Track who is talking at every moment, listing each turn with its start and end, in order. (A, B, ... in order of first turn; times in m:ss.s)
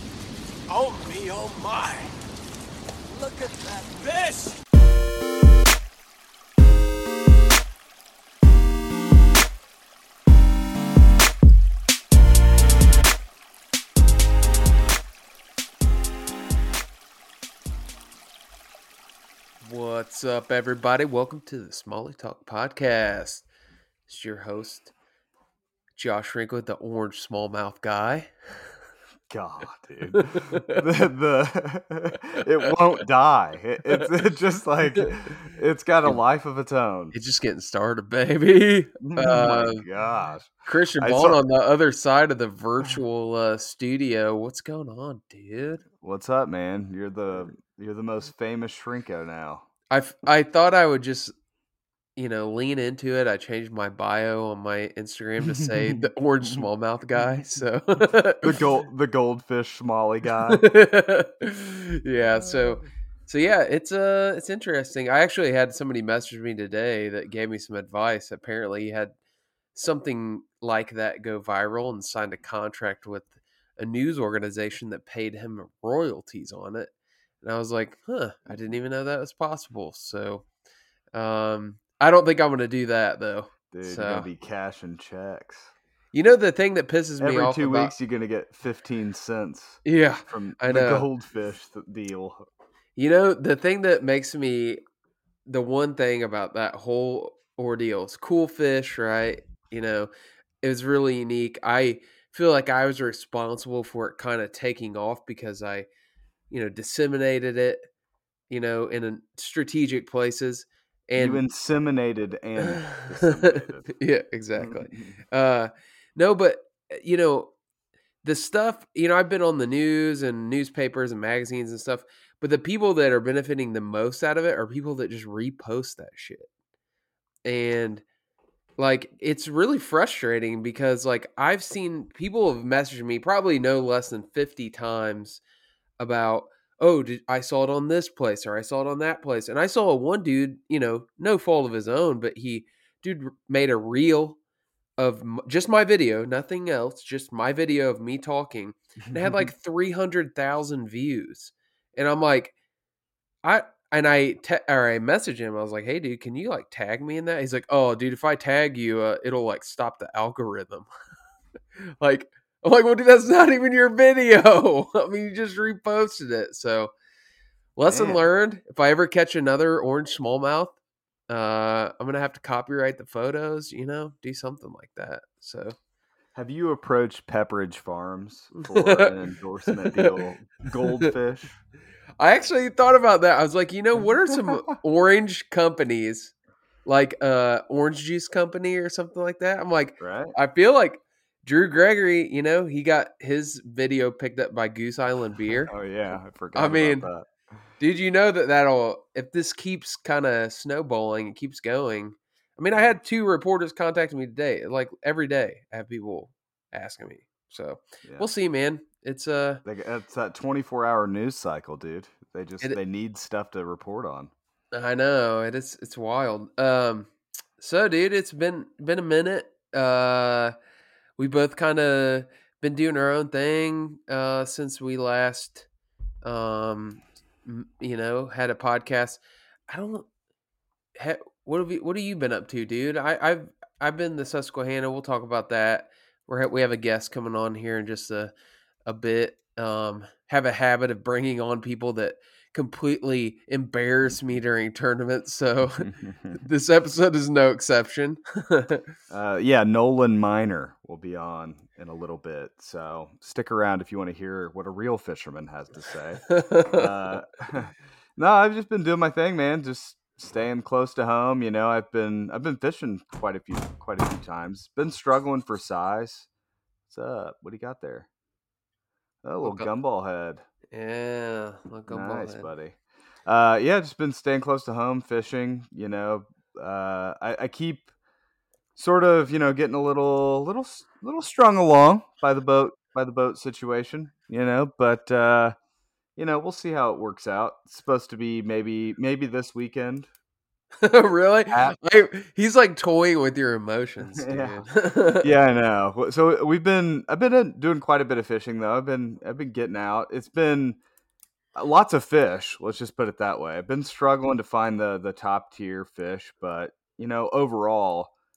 0:00.7-0:02.1 A
0:03.1-0:04.6 A
0:19.6-0:23.5 B
0:24.1-0:24.9 B
0:26.0-0:28.3 B
0:29.3-0:37.1 C
0:30.1-0:30.8 B
0:37.1-0:39.8 B
0:39.0-0:41.4 C
0:40.6-0:45.8 B
0:46.0-0:49.6 C
0:49.9-0:51.3 B
0:52.2-0:58.5 B
0:55.4-0:56.6 C
0:58.4-1:00.6 C
1:00.5-1:09.1 B
1:09.7-1:20.4 B
1:21.1-1:24.3 B
1:23.7-1:25.7 C
1:26.1-1:27.9 B
1:27.2-1:32.5 C
1:29.8-1:31.1 B
1:33.0-1:34.8 B
1:35.4-1:40.1 B
1:40.6-1:45.9 B
1:46.5-1:47.9 B
1:48.5-1:51.4 B
1:51.2-1:53.9 C
1:52.7-1:57.5 B
1:54.6-1:55.2 C
1:58.2-2:06.5 B
2:07.4-2:08.0 B
2:08.8-2:15.4 B
2:16.0-2:24.4 B
2:25.0-2:32.5 B
2:29.0-2:29.5 C
2:33.4-2:40.9 B
2:42.0-2:46.9 B
2:47.8-2:50.7 B
2:47.9-2:48.2 C
2:51.3-2:55.7 B
2:56.3-3:01.5 C
2:58.7-2:59.1 B
2:59.7-3:00.1 B
3:02.2-3:06.3 B
3:06.8-3:17.1 B
3:10.0-3:10.3 C
3:15.7-3:17.3 C
3:17.8-3:29.6 B
3:29.6-3:34.3 C
3:34.7-3:40.5 B
3:41.2-3:45.7 B
3:46.2-3:50.1 B
3:51.0-3:58.3 B
3:58.8-4:08.8 B
4:05.8-4:06.4 C
4:09.1-4:26.3 C
4:16.3-4:16.9 B
4:26.9-4:28.1 C
4:29.2-4:30.4 C
4:29.4-4:29.7 B
4:30.7-4:32.5 B
4:31.9-4:37.9 C
4:38.8-4:45.5 C
4:46.2-4:50.1 C
4:50.8-4:55.3 B
4:51.5-4:51.8 C
4:54.2-4:54.6 C
4:55.2-5:00.8 C
5:01.5-5:08.1 C